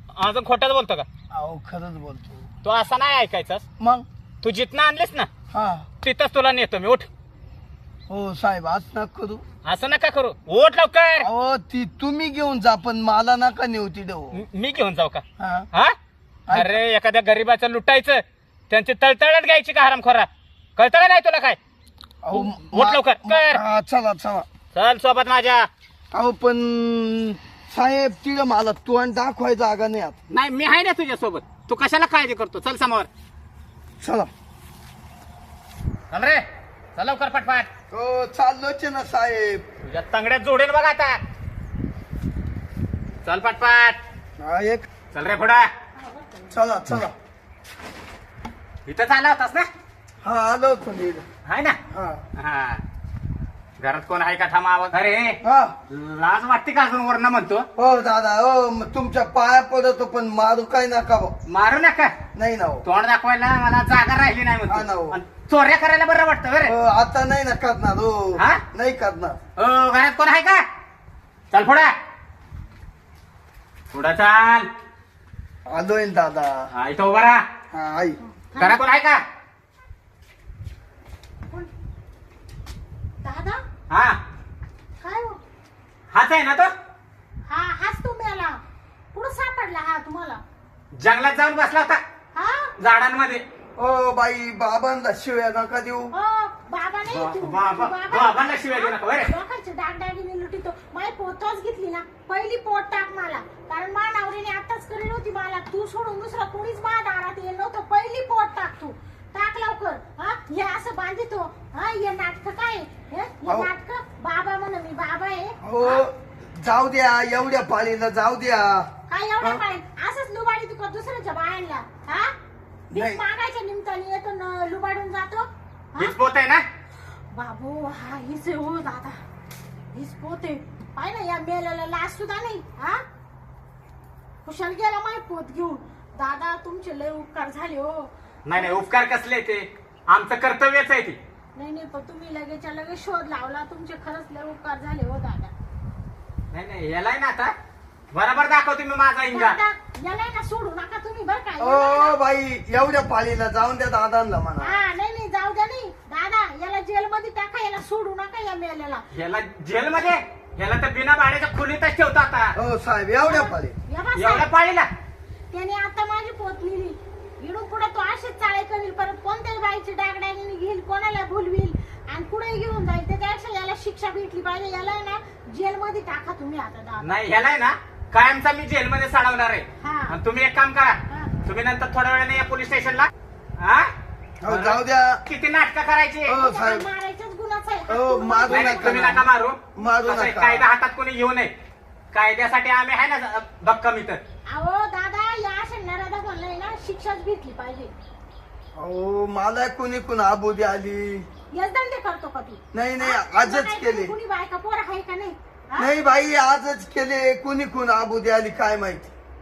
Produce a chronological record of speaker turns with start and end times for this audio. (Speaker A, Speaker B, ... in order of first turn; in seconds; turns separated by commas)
Speaker A: 0.2-1.1, Speaker B: 1.3-2.5, Speaker A: 2.6-3.6, Speaker B: 3.8-4.0, Speaker A: 4.4-5.3, Speaker B: 5.5-5.8, Speaker A: 6.0-7.1, Speaker B: 8.1-9.4, Speaker A: 9.6-11.3, Speaker B: 11.2-14.4, Speaker A: 14.3-15.9, Speaker B: 15.4-15.7, Speaker B: 16.5-16.8, Speaker A: 16.5-21.6, Speaker B: 22.2-24.4, Speaker A: 22.3-23.6, Speaker A: 24.7-25.7, Speaker B: 26.1-30.2, Speaker A: 30.3-33.1, Speaker B: 34.0-34.3, Speaker A: 36.1-36.4, Speaker A: 36.9-37.7, Speaker B: 37.9-39.6, Speaker A: 39.8-41.2, Speaker A: 43.2-44.0, Speaker B: 44.4-44.9, Speaker A: 45.1-45.7, Speaker C: 45.9-46.6, Speaker B: 46.5-47.1, Speaker A: 48.9-49.7, Speaker B: 50.2-51.2, Speaker A: 51.5-51.8, Speaker B: 51.9-52.2, Speaker A: 52.4-52.8, Speaker A: 53.8-57.7, Speaker B: 55.4-55.7, Speaker B: 57.8-61.3, Speaker A: 61.5-62.1, Speaker B: 62.3-62.8, Speaker A: 62.8-66.7, Speaker B: 64.7-65.2, Speaker B: 66.6-69.4, Speaker A: 68.3-68.6, Speaker A: 69.6-70.6, Speaker A: 71.5-71.9, Speaker A: 73.9-74.7, Speaker B: 75.7-76.7, Speaker A: 76.7-77.4, Speaker B: 77.7-78.2, Speaker C: 78.2-78.8, Speaker A: 78.6-79.2, Speaker C: 83.2-83.6, Speaker A: 83.9-84.2, Speaker C: 85.0-85.4, Speaker A: 86.1-86.7, Speaker C: 87.5-88.6, Speaker C: 89.1-90.4, Speaker A: 91.0-92.0, Speaker C: 92.3-92.7, Speaker A: 92.8-93.4, Speaker B: 93.8-96.1, Speaker C: 96.1-116.0, Speaker A: 97.1-99.3, Speaker B: 113.5-113.7, Speaker B: 115.6-118.9, Speaker C: 119.1-122.3, Speaker C: 122.9-126.2, Speaker B: 122.9-123.2, Speaker A: 126.0-126.6, Speaker C: 127.3-129.2, Speaker C: 129.9-133.0, Speaker C: 134.4-138.8, Speaker A: 138.4-141.2, Speaker C: 141.6-145.5, Speaker A: 146.5-147.5, Speaker A: 148.1-149.6, Speaker C: 149.3-152.2, Speaker B: 151.6-154.8, Speaker C: 154.6-159.0, Speaker A: 159.1-162.5, Speaker B: 162.6-163.7, Speaker C: 163.2-164.5, Speaker A: 164.2-164.9, Speaker C: 165.5-177.1, Speaker A: 177.0-183.9, Speaker C: 179.8-180.2, Speaker B: 184.4-185.2, Speaker A: 184.4-186.3, Speaker B: 186.3-186.8, Speaker C: 186.3-189.1, Speaker B: 187.9-190.6, Speaker A: 188.5-191.5, Speaker A: 192.1-194.2, Speaker C: 194.5-197.9, Speaker B: 198.8-201.3, Speaker C: 201.5-205.9, Speaker B: 202.7-204.1, Speaker B: 205.8-209.1